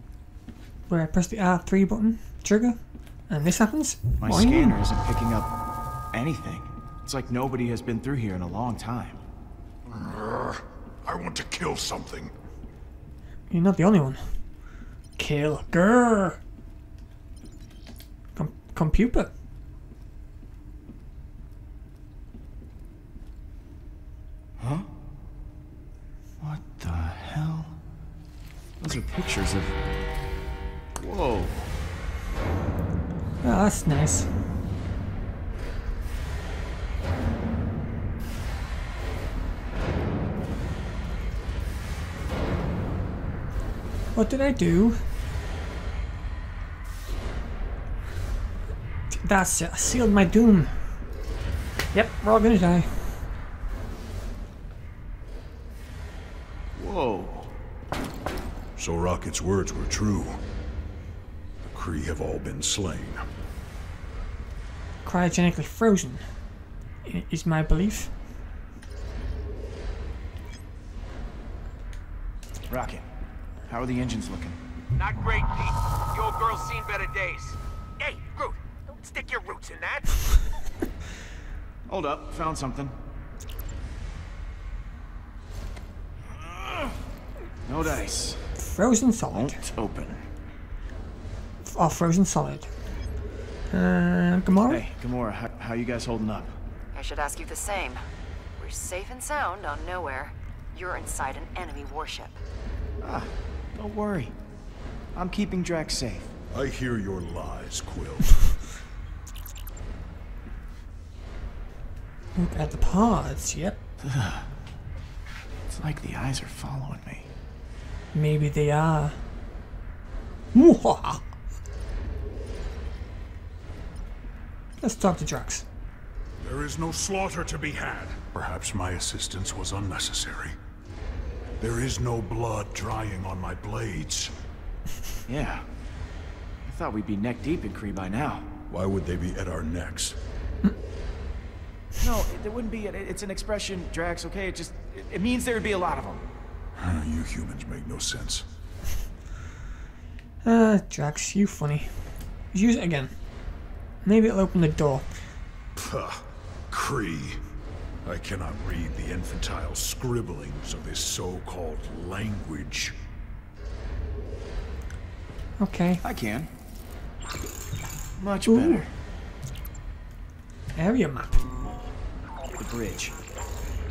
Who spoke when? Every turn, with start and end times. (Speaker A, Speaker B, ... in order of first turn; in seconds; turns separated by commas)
Speaker A: 0.9-4.8, Speaker B: 4.2-5.5, Speaker B: 6.1-9.2, Speaker C: 9.9-12.3, Speaker A: 13.5-14.3, Speaker A: 15.2-16.4, Speaker A: 18.4-19.3, Speaker B: 24.6-24.9, Speaker B: 26.4-27.8, Speaker B: 28.8-29.8, Speaker B: 31.0-31.8, Speaker A: 33.4-34.3, Speaker A: 44.1-45.0, Speaker A: 49.1-50.8, Speaker A: 51.9-53.2, Speaker B: 56.8-57.5, Speaker C: 58.8-60.4, Speaker C: 61.6-63.2, Speaker A: 65.0-66.2, Speaker A: 67.0-68.1, Speaker B: 72.7-73.0, Speaker B: 73.7-74.6, Speaker D: 75.0-80.1, Speaker B: 81.9-83.0, Speaker B: 87.7-88.4, Speaker A: 88.6-89.6, Speaker B: 89.3-90.2, Speaker A: 91.6-92.7, Speaker A: 93.7-94.8, Speaker B: 94.5-96.6, Speaker E: 96.9-98.0, Speaker E: 98.6-102.4, Speaker B: 103.0-104.3, Speaker B: 105.1-106.3, Speaker C: 106.5-108.5, Speaker A: 112.4-113.8, Speaker B: 114.0-114.5, Speaker B: 115.7-117.3, Speaker A: 118.1-119.2, Speaker A: 120.5-121.3, Speaker A: 124.8-125.7, Speaker C: 126.4-130.6, Speaker C: 131.6-134.3, Speaker B: 135.3-135.6, Speaker B: 136.7-138.5, Speaker C: 138.7-140.2, Speaker B: 142.0-146.2, Speaker C: 146.8-148.5, Speaker A: 150.4-152.0, Speaker A: 152.5-153.2, Speaker A: 154.0-155.1, Speaker C: 155.8-157.4, Speaker C: 158.1-162.9, Speaker A: 165.6-166.0, Speaker B: 166.0-166.5, Speaker B: 168.2-168.9, Speaker A: 168.5-168.9, Speaker A: 170.8-171.4, Speaker B: 172.6-173.2